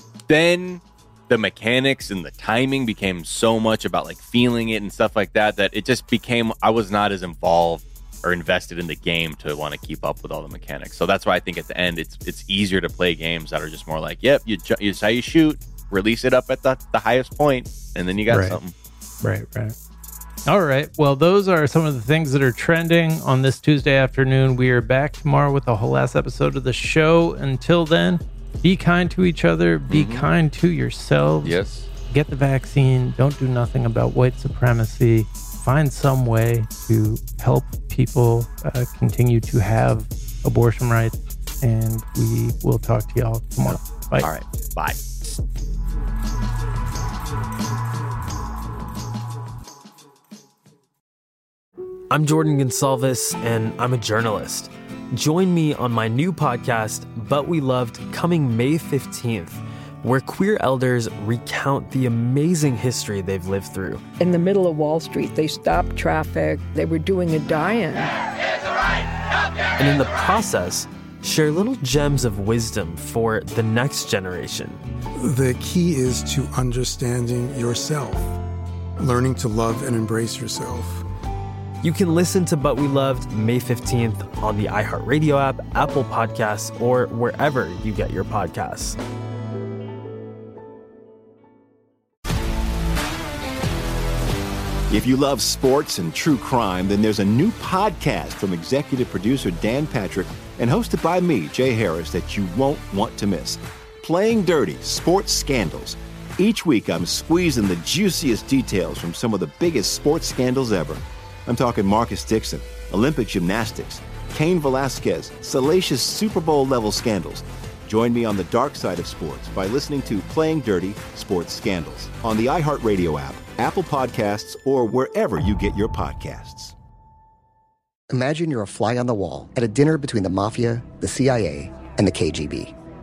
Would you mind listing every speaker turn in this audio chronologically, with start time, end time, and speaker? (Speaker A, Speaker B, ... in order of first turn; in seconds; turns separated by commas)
Speaker A: 0.3-18.7, Speaker B: 18.3-18.6, Speaker B: 19.2-19.8, Speaker B: 20.5-44.3, Speaker A: 29.9-30.3, Speaker A: 31.4-31.9, Speaker A: 43.7-45.0, Speaker C: 52.1-64.0, Speaker D: 64.2-68.1, Speaker C: 69.8-74.8, Speaker E: 75.2-78.4, Speaker E: 79.0-81.0, Speaker C: 81.8-89.0, Speaker F: 94.9-126.8, Speaker G: 128.1-132.7